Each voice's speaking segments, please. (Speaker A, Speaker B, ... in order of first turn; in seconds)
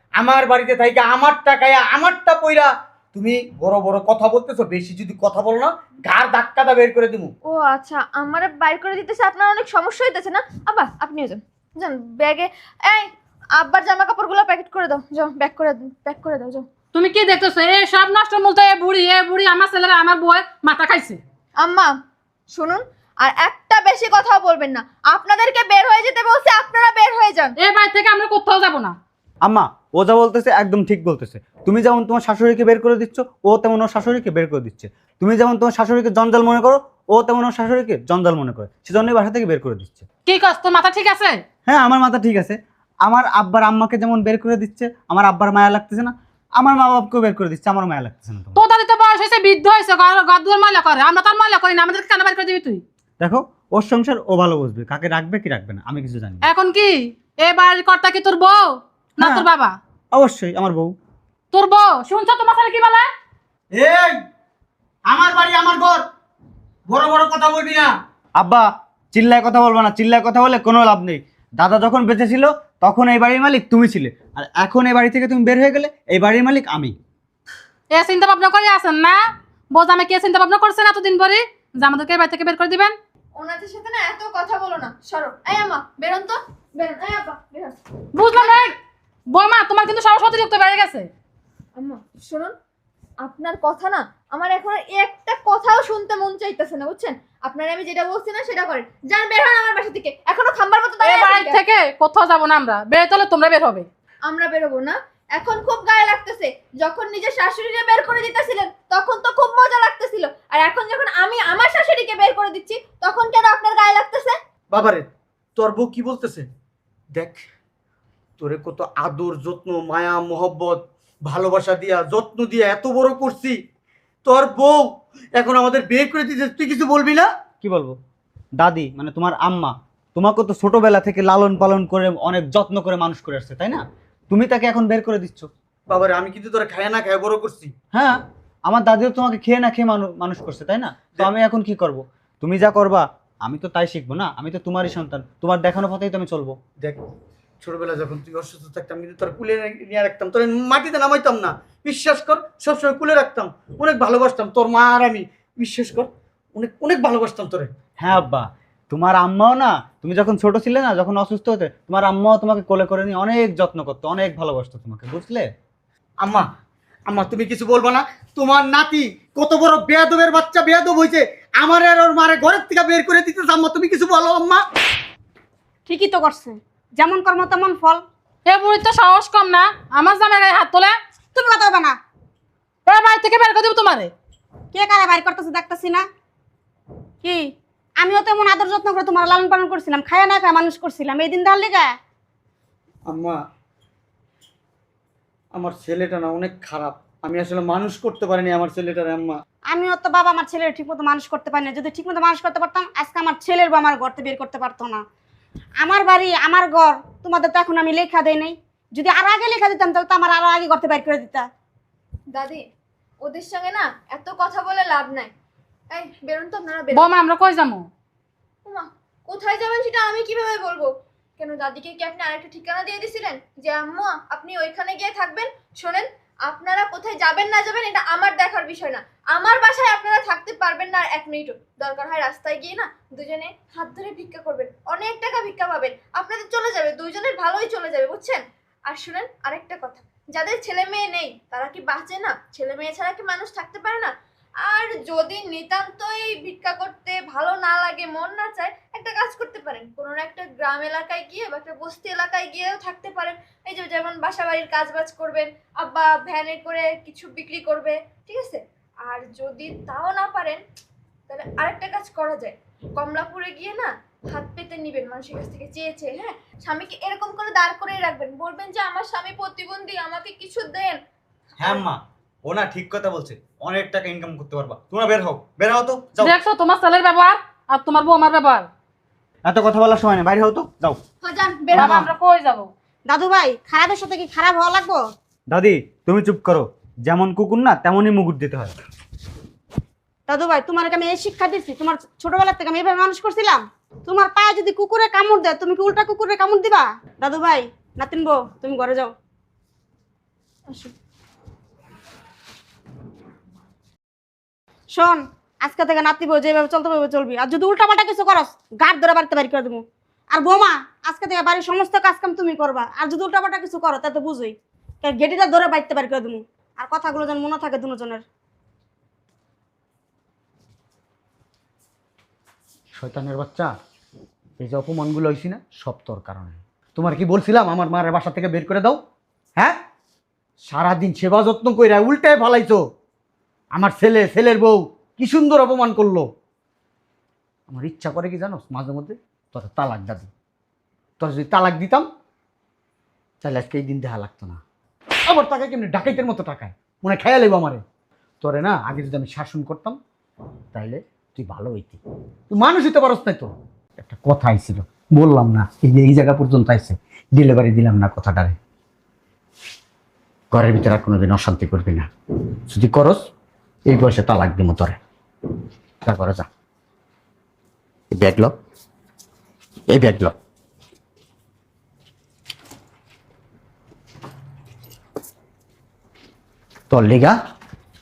Speaker A: 0.2-7.3, 63.8-64.2, 65.1-66.0, 66.9-67.9, 114.7-116.5, 117.2-117.5, 118.4-123.6, 124.2-127.3, 135.9-137.7, 147.6-157.7, 166.2-166.5, 167.1-174.6, 193.1-193.4, 195.5-199.4, 323.0-323.7, 324.6-329.0, 330.6-332.8, 333.7-336.3, 337.7-340.3, 341.2-342.1, 343.4-344.6, 345.3-347.8, 348.4-350.0, 350.7-358.6, 360.5-362.1, 362.7-363.2, 363.9-365.0, 366.0-366.5, 368.1-368.5, 369.9-370.3, 376.9-377.4
Speaker B: 7.5-16.7, 21.6-21.9, 22.5-27.5, 83.4-88.7, 91.8-92.5, 93.2-101.6, 104.3-114.4, 212.3-212.6, 213.2-215.3, 215.9-217.1, 218.7-244.1, 244.6-260.6, 261.3-271.0, 281.2-282.0
Speaker C: 16.9-21.2, 27.6-28.9, 40.3-41.4, 48.5-52.8, 56.4-59.8, 61.5-63.1, 77.9-79.2, 79.7-83.0, 88.2-88.8, 89.3-91.1, 101.0-103.9, 178.5-180.9, 182.9-184.1, 216.9-217.9, 276.2-278.7, 281.7-282.7
Speaker D: 29.4-40.1, 41.7-48.6, 53.2-56.5, 59.2-59.5, 60.1-60.9, 68.4-76.9, 127.6-128.0, 128.6-135.5, 137.9-146.6, 158.0-165.5, 271.6-276.4, 279.5-281.0, 281.7-282.1, 285.5-288.7
Speaker E: 175.9-178.0, 181.3-182.0, 184.7-186.0, 187.2-187.5, 188.0-191.9, 199.7-205.0, 205.8-211.5, 283.1-285.0, 290.3-299.1, 304.9-318.2